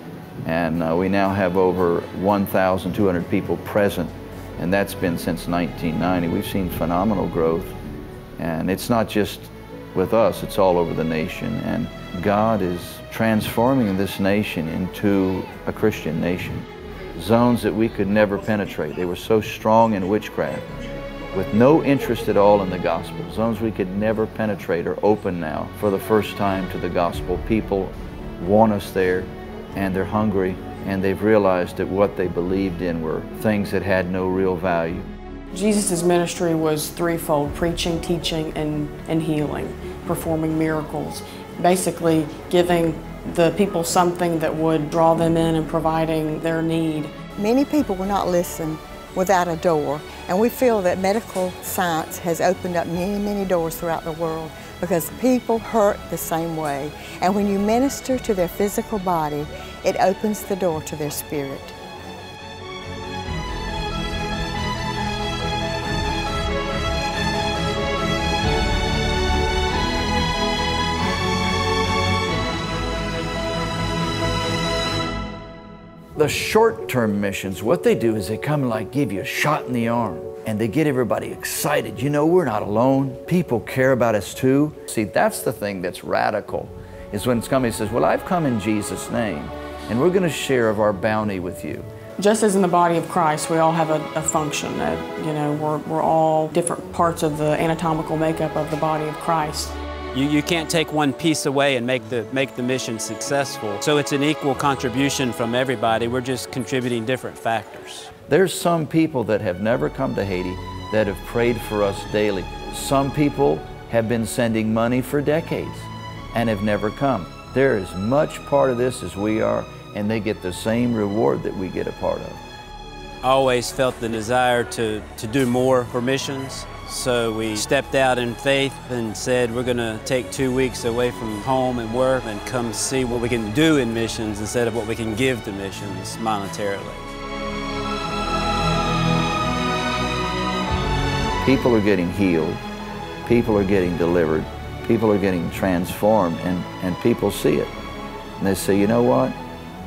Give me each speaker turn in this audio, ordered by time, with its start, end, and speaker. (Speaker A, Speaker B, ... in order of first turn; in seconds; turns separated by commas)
Speaker A: 0.4-7.8, Speaker A: 8.4-20.7, Speaker A: 21.3-35.1, Speaker B: 35.5-47.1, Speaker C: 47.4-61.8, Speaker A: 76.2-91.9, Speaker B: 92.2-99.8, Speaker D: 100.1-108.1, Speaker A: 108.3-122.4, Speaker D: 123.2-137.1, Speaker A: 141.4-142.6, Speaker A: 143.2-147.7, Speaker A: 148.4-149.4